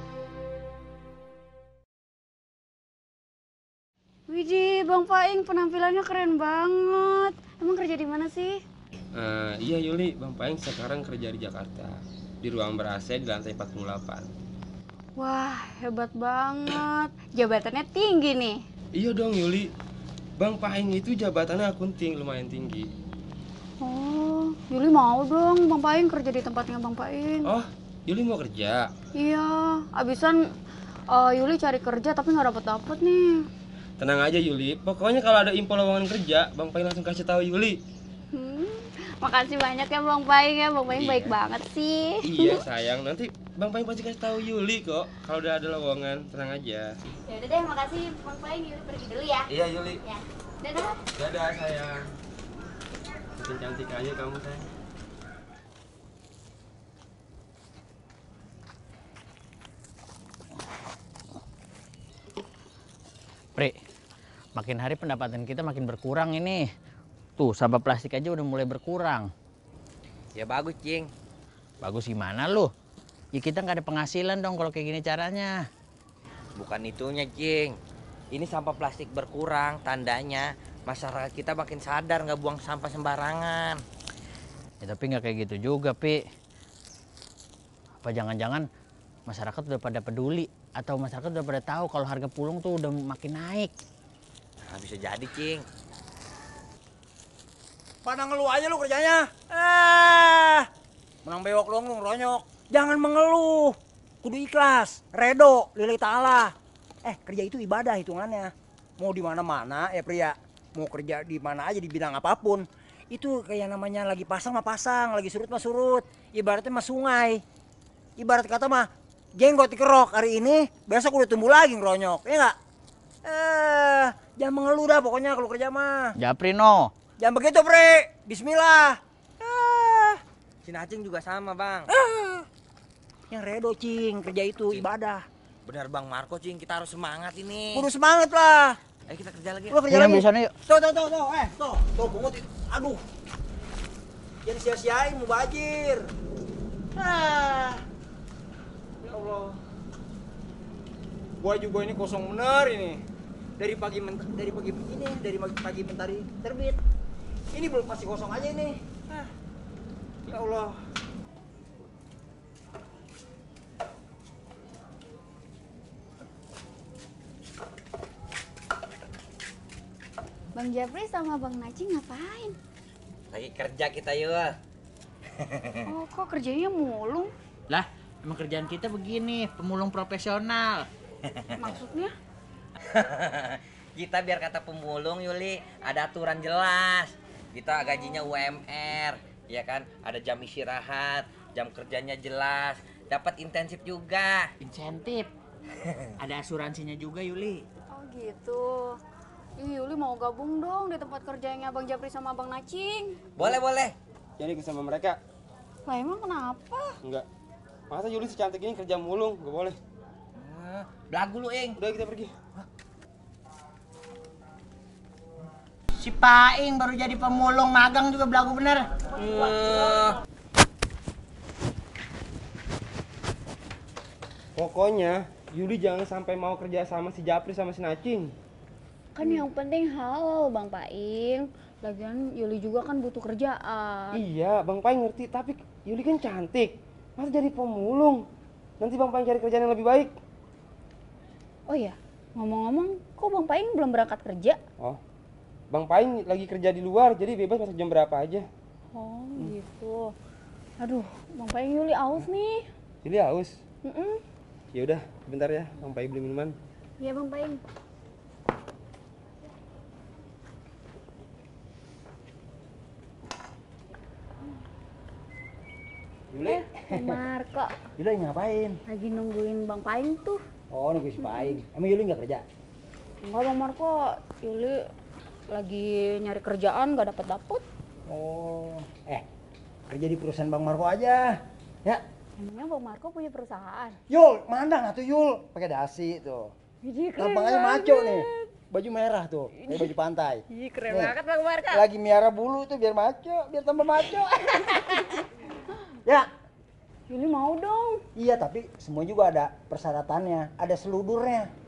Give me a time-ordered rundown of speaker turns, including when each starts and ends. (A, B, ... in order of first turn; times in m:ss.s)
0:04.3-0:08.6 A
0:09.1-0:14.3 B
0:15.2-0:18.6 A
0:18.9-0:19.7 B
0:20.4-0:22.9 B
0:23.8-0:27.5 A
0:27.4-0:28.9 B
0:29.1-0:30.4 A
0:31.1-0:33.4 A
0:34.0-0:37.8 B
0:38.3-0:42.6 A
0:40.9-0:41.3 B
0:42.2-0:46.9 B
0:47.2-0:49.5 A
0:49.5-0:50.0 B
0:50.0-0:51.0 A
0:51.2-0:52.1 B
0:53.4-0:54.7 B
1:04.6-1:06.6 C
1:07.4-1:09.3 C
1:10.3-1:11.1 D
1:11.8-1:12.7 C
1:13.3-1:15.5 C
1:16.6-1:17.8 D
1:18.3-1:23.8 D
1:24.8-1:26.2 C
1:28.0-1:28.6 C
1:29.3-1:33.7 C
1:34.7-1:35.6 D
1:38.0-1:40.7 E
1:41.2-1:57.4 E
1:58.2-2:02.6 E
2:03.2-2:06.1 E
2:06.2-2:06.9 C
2:07.2-2:10.2 E
2:10.6-2:11.9 D
2:11.9-2:12.4 E
2:13.3-2:15.2 E
2:15.6-2:17.9 D
2:17.7-2:18.8 E
2:19.1-2:19.8 D
2:19.7-2:23.0 E
2:19.9-2:20.5 C
2:24.4-2:26.1 E
2:27.0-2:27.8 E
2:29.0-2:29.6 E
2:31.4-2:33.0 E
2:33.6-2:36.8 E
2:37.5-2:39.3 E
2:40.2-2:40.8 E
2:50.5-2:52.6 A
2:53.3-2:54.5 D
2:55.4-2:55.8 D
2:55.8-2:57.3 A
2:57.7-3:00.8 C
3:01.6-3:02.1 A
3:02.9-3:14.5 D
3:14.6-3:15.3 C
3:16.2-3:17.6 C
3:17.9-3:19.0 A
3:19.6-3:23.2 A
3:23.4-3:23.9 D
3:24.4-3:25.2 B
3:25.8-3:27.0 A
3:27.9-3:29.8 B
3:30.4-3:31.8 D
3:31.8-3:32.3 B
3:36.0-3:38.9 E
3:39.2-3:40.2 D
3:44.6-3:48.3 B
3:49.2-3:54.2 A
3:54.1-3:58.2 B
3:58.8-4:00.1 B
4:01.7-4:04.6 A
4:05.7-4:08.4 B
4:08.9-4:10.1 A
4:10.8-4:12.6 A
4:13.0-4:13.6 B
4:13.8-4:14.2 A
4:14.7-4:16.6 B
4:17.0-4:17.6 A
4:26.3-4:27.2 E
4:26.4-4:27.8 A
4:28.0-4:28.8 E
4:28.8-4:30.4 A
4:30.7-4:32.4 E
4:31.2-4:31.6 A
4:33.2-4:34.8 A
4:35.5-4:37.6 A
4:38.1-4:39.2 E
4:39.9-4:42.0 E
4:42.4-4:44.0 A
4:44.1-4:46.5 E
4:46.8-4:48.5 A
4:47.2-4:51.1 E
4:49.6-4:49.9 A
4:50.5-4:51.8 A
4:51.7-4:55.2 E
4:57.1-4:58.0 A
4:58.1-5:01.5 E